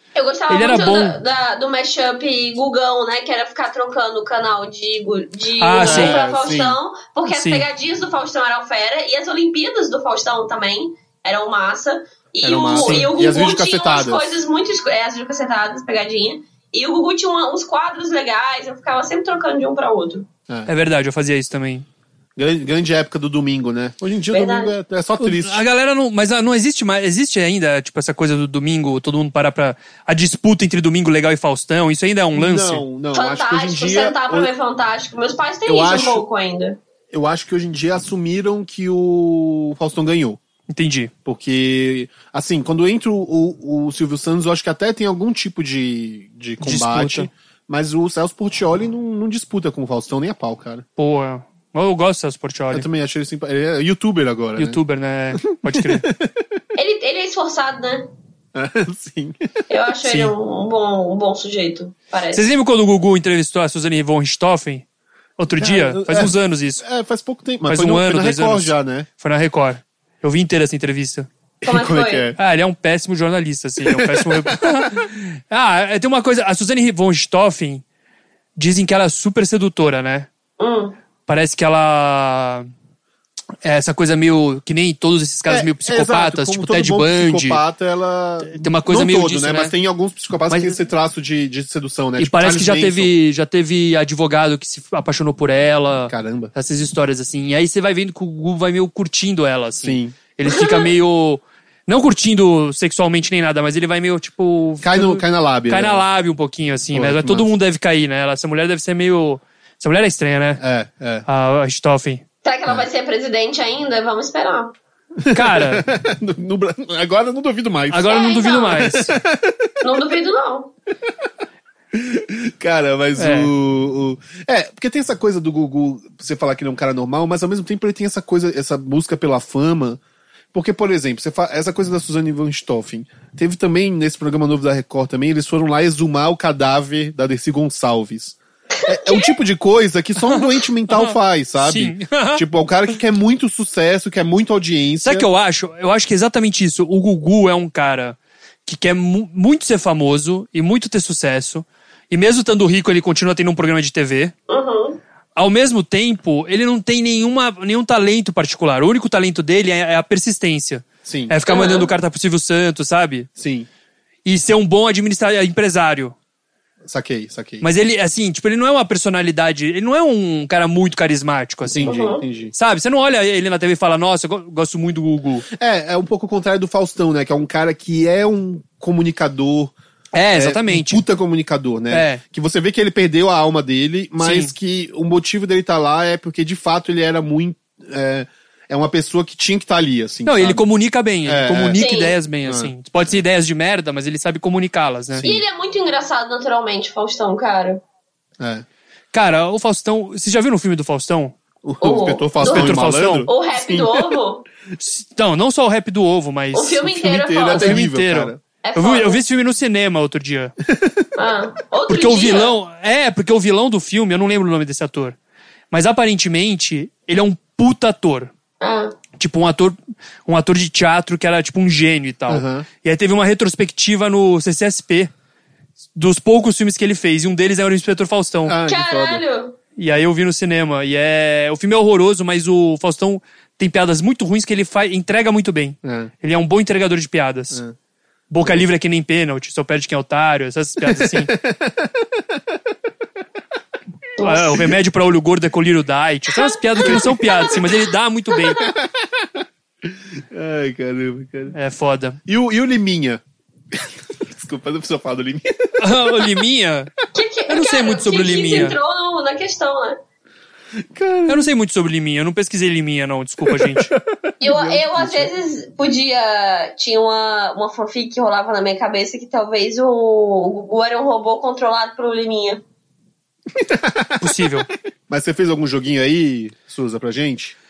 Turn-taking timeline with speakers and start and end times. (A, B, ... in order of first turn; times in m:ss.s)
0:00.1-0:20.3 A
0:00.5-0:01.2 B
0:05.6-0:06.2 B
0:05.8-0:06.8 C
0:07.3-0:07.6 B
0:12.4-0:14.4 C
0:12.8-0:13.1 B
0:20.7-0:21.8 B
0:22.4-0:25.6 C
0:24.3-0:24.7 A
0:25.2-0:32.8 B
0:32.3-0:34.5 C
0:33.1-0:36.8 A
0:35.6-0:36.2 C
0:37.1-0:40.4 C
0:40.7-0:41.1 B
0:41.2-0:50.8 C
0:46.6-0:47.3 B
0:51.0-0:52.8 B
0:52.7-0:54.8 C
0:54.6-0:56.1 B
0:55.5-0:56.5 C
0:56.8-0:58.1 A
0:58.5-0:59.5 C
0:59.7-1:02.4 A
1:00.0-1:00.3 B
1:02.3-1:04.8 B
1:05.4-1:06.8 B
1:05.6-1:09.1 C
1:07.7-1:11.3 B
1:11.6-1:12.4 C
1:11.6-1:12.3 A
1:12.4-1:17.8 B
1:13.8-1:14.9 C
1:18.6-1:20.3 B
1:20.6-1:21.0 A
1:21.3-1:22.7 B
1:23.6-1:27.6 B
1:25.5-1:33.1 C
1:28.5-1:29.7 B
1:30.5-1:30.8 B
1:32.2-1:50.6 B
1:36.1-1:36.5 C
1:39.8-1:40.2 C
1:40.5-1:40.9 A
1:44.8-1:46.0 C
1:46.9-1:47.5 C
1:50.6-1:51.2 C
1:51.2-1:52.2 B
1:52.4-1:54.7 A
1:55.2-1:59.7 C
1:55.3-1:55.8 B
1:57.9-1:59.1 B
1:58.1-1:58.8 A
1:59.8-2:00.7 A
2:01.9-2:10.0 C
2:03.2-2:03.5 B
2:10.5-2:25.3 C
2:18.7-2:19.3 A
2:20.2-2:22.4 B
2:25.0-2:34.3 B
2:34.5-2:35.0 A
2:35.4-2:43.3 B
2:41.0-2:41.4 C
2:41.5-2:41.9 A
2:43.4-2:43.7 C
2:44.2-2:46.1 B
2:46.8-2:47.7 C
2:47.6-2:51.9 B
2:51.6-2:52.5 C
2:51.8-2:52.2 A
2:52.5-2:55.5 B
2:55.5-2:59.7 C
3:00.1-3:01.0 B
3:00.3-3:10.6 C
3:01.9-3:02.2 B
3:04.2-3:04.5 B
3:10.2-3:15.2 B
3:11.2-3:11.8 C
3:11.7-3:12.2 A
3:12.4-3:12.7 C
3:15.1-3:15.4 C
3:15.2-3:17.8 A
3:18.4-3:18.6 C
3:19.1-3:21.3 B
3:21.6-3:24.2 C
3:21.8-3:24.4 A
3:22.4-3:23.3 B
3:24.8-3:27.0 B
3:26.5-3:27.8 A
3:26.8-3:28.4 C
3:27.5-3:30.5 B
3:28.6-3:29.2 A
3:30.7-3:31.0 C
3:31.2-3:32.5 A
3:31.9-3:35.2 B
3:35.7-3:38.3 B
3:38.6-3:39.0 A
3:39.2-3:45.1 B
3:42.3-3:42.7 C
3:46.0-3:48.6 B
3:48.4-3:49.2 C
3:48.7-3:49.6 A
3:49.8-3:57.6 B
3:55.8-3:56.1 C
3:58.3-4:01.3 B
4:00.8-4:02.4 C
4:04.2-4:04.5 A
4:04.2-4:08.6 B
4:06.8-4:07.6 C
4:08.6-4:11.6 C
4:11.5-4:12.2 B
4:12.3-4:16.2 C
4:15.8-4:16.9 B
4:17.1-4:20.0 A
4:17.5-4:18.8 B
4:20.9-4:21.5 C
4:21.3-4:23.9 B
4:23.5-4:25.3 C
4:24.4-4:32.6 A
4:33.5-4:34.3 C
4:34.2-4:34.7 B
4:35.1-4:37.6 C